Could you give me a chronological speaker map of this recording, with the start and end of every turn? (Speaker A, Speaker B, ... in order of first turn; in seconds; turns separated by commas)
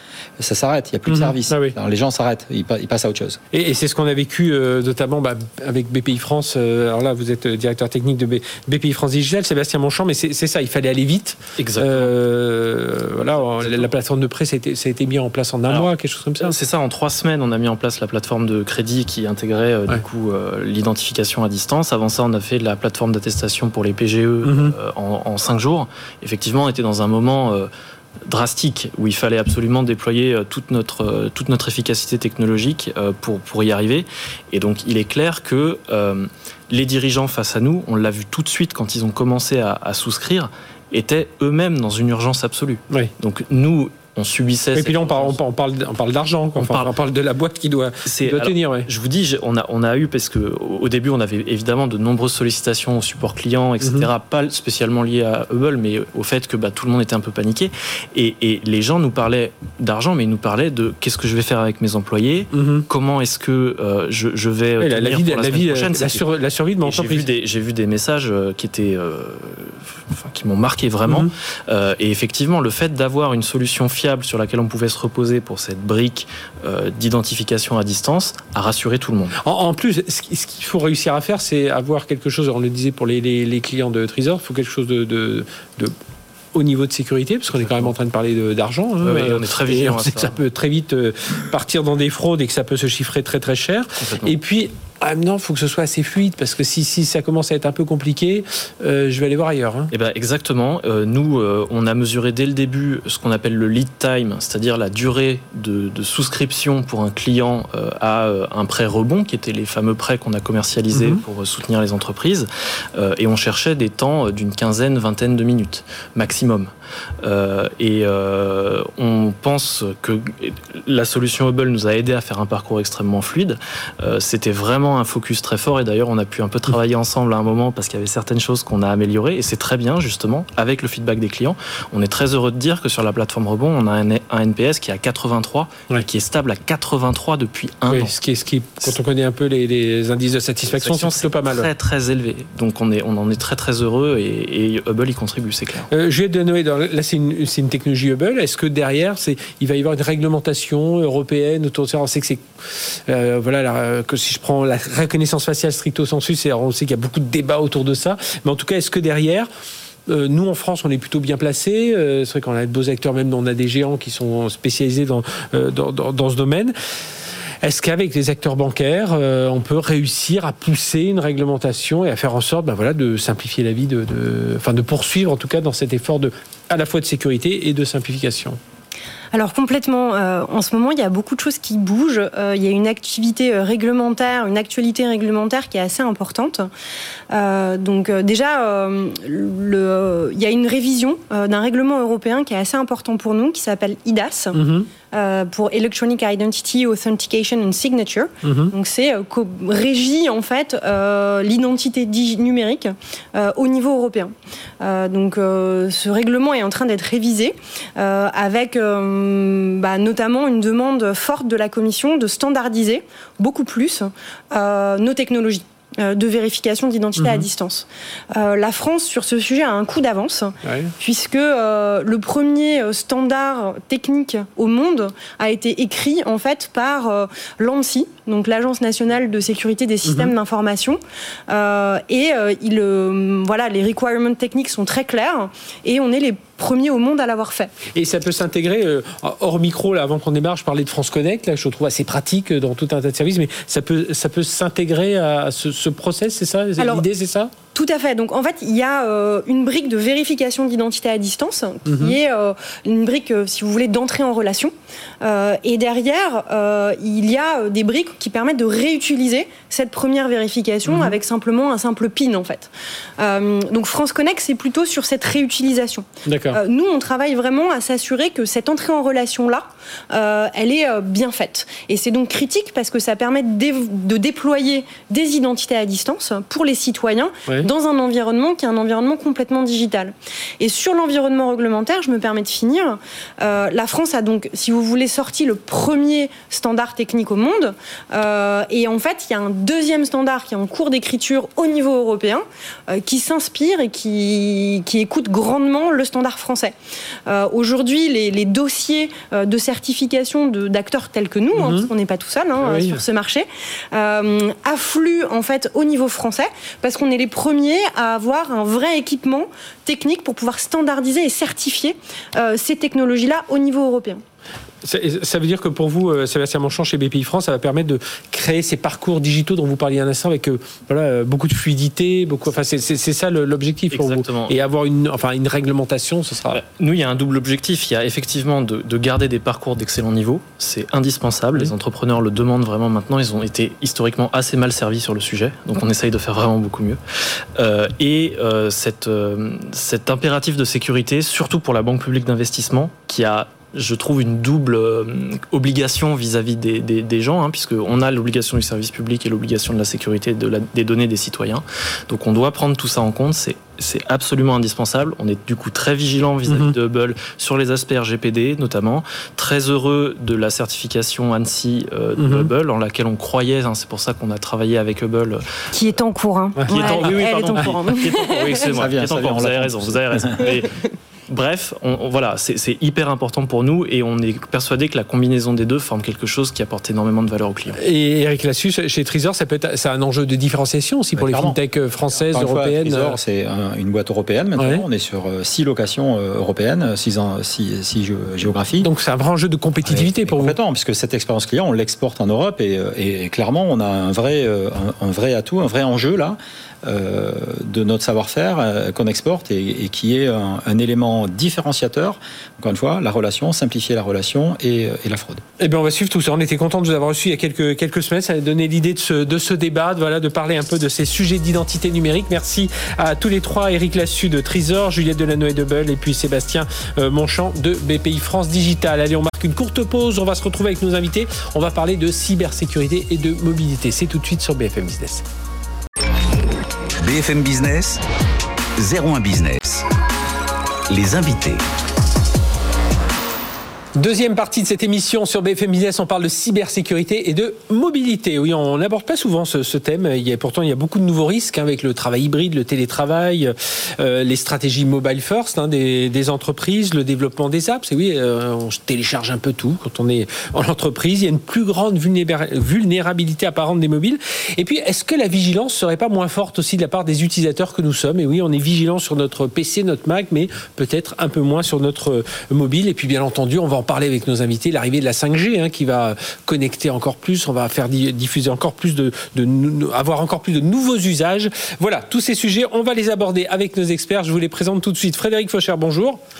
Speaker A: 0.4-3.4, Speaker B: 1.1-1.7, Speaker B: 3.5-16.6, Speaker C: 11.6-12.1, Speaker C: 13.3-13.9, Speaker C: 16.4-27.7, Speaker B: 24.4-24.7, Speaker C: 28.2-45.4, Speaker B: 44.7-48.9, Speaker C: 46.6-46.9, Speaker C: 48.0-66.2, Speaker B: 53.8-54.1, Speaker B: 62.5-62.8, Speaker B: 64.8-67.2, Speaker C: 66.8-79.4, Speaker B: 71.0-71.3, Speaker B: 79.4-85.9, Speaker B: 86.5-99.9, Speaker C: 87.5-87.9, Speaker C: 89.0-90.4, Speaker C: 94.0-94.3, Speaker C: 99.9-116.7, Speaker B: 110.9-111.2, Speaker C: 117.2-138.1, Speaker B: 137.9-141.7, Speaker C: 140.7-145.9, Speaker B: 145.9-152.4, Speaker B: 153.1-159.5, Speaker B: 160.1-166.7, Speaker B: 167.6-178.6, Speaker D: 179.3-186.7, Speaker D: 187.3-194.6, Speaker B: 194.5-194.9, Speaker D: 195.1-237.7, Speaker B: 198.4-198.7, Speaker B: 217.2-217.4, Speaker B: 220.6-220.9, Speaker B: 230.1-230.3, Speaker B: 237.9-247.5, Speaker D: 246.8-247.1, Speaker D: 247.7-296.7, Speaker B: 251.8-252.2, Speaker B: 260.9-261.1, Speaker B: 266.2-266.6, Speaker D: 297.3-314.2, Speaker B: 301.6-301.9, Speaker B: 302.6-303.0, Speaker B: 314.8-326.6, Speaker C: 323.9-324.5, Speaker C: 326.5-337.0, Speaker C: 337.6-365.4, Speaker B: 356.5-356.7, Speaker B: 362.2-362.5, Speaker D: 365.7-368.7, Speaker B: 366.6-367.7, Speaker C: 366.7-377.8, Speaker A: 368.7-370.5, Speaker B: 377.8-383.2, Speaker A: 381.1-381.6, Speaker A: 382.1-388.9, Speaker B: 384.6-384.8, Speaker B: 388.8-390.5, Speaker A: 389.8-405.4, Speaker B: 405.6-425.2, Speaker E: 427.0-428.0, Speaker E: 428.8-429.9, Speaker E: 430.9-431.6, Speaker B: 433.9-476.2